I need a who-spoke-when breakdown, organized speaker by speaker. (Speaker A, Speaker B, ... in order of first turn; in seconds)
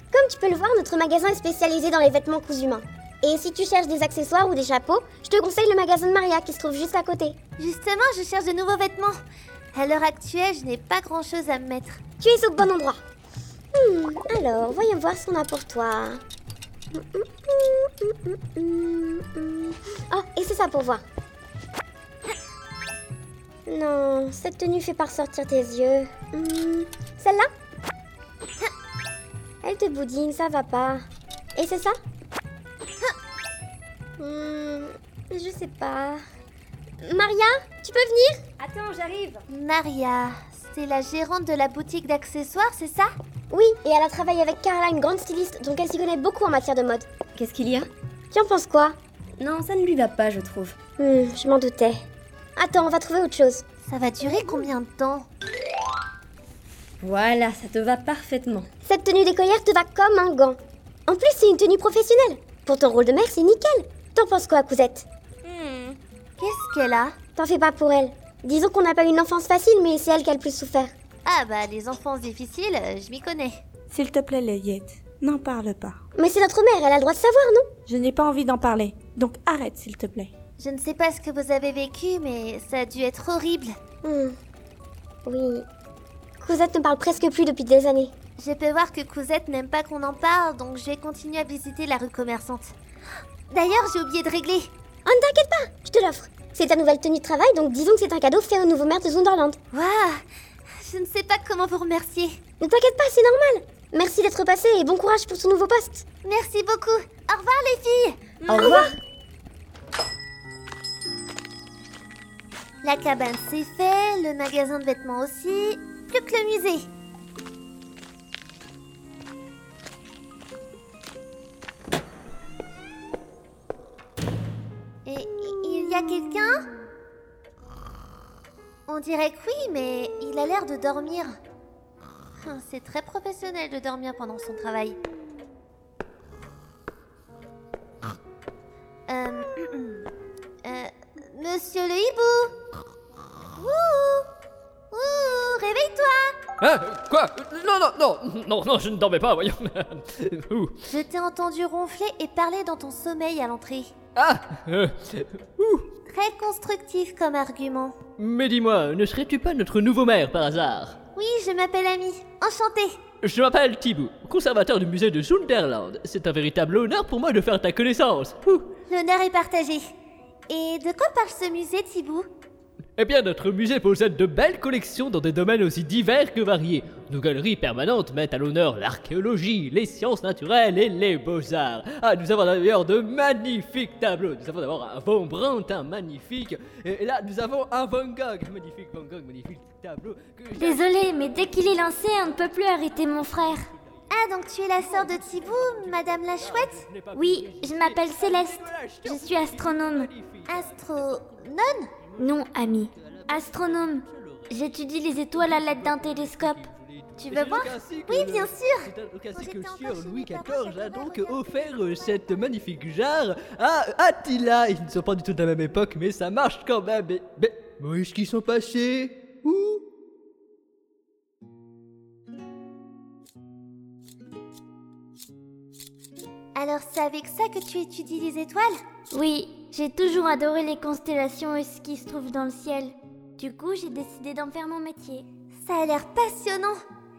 Speaker A: 0.1-7.4, 12.2-13.0, 13.7-16.2, 16.9-21.0, 23.7-27.5, 29.6-31.0, 31.5-32.0, 34.2-36.2, 37.0-38.4, 43.5-47.1, 48.3-49.0, 51.0-52.0, 52.5-53.6, 58.9-65.0, 67.3-70.9, 76.2-77.7, 84.0-84.3, 85.2-85.6, 86.4-88.1, 95.0-99.6, 102.6-106.0, 108.5-108.9
Speaker B: 7.6-9.2, 9.7-12.0, 39.5-43.1, 53.9-55.3, 66.4-67.1, 71.2-73.6, 80.6-83.7, 88.4-92.7, 93.5-94.7, 99.7-100.2, 100.8-102.4, 106.2-108.2, 112.8-116.9, 125.0-126.5, 128.9-131.3, 132.4-135.0, 139.1-140.0, 140.6-142.5, 143.6-144.2, 144.9-146.3, 150.8-153.9, 156.1-158.0, 161.1-163.0, 168.9-169.8, 170.5-172.3, 194.1-196.9, 200.4-201.9, 207.2-211.7, 226.5-228.7, 235.6-236.8
Speaker C: 38.6-39.4, 47.4-47.9, 49.4-50.8, 57.0-58.7, 65.4-66.0, 108.4-108.8
Speaker D: 73.9-76.0, 77.9-80.3
Speaker E: 146.6-150.7, 154.2-155.8, 158.2-161.0, 163.2-168.7, 173.0-191.4, 194.8-201.2, 202.9-204.7, 205.3-219.8
Speaker F: 190.6-193.6, 197.1-200.1, 202.2-206.6, 229.1-235.3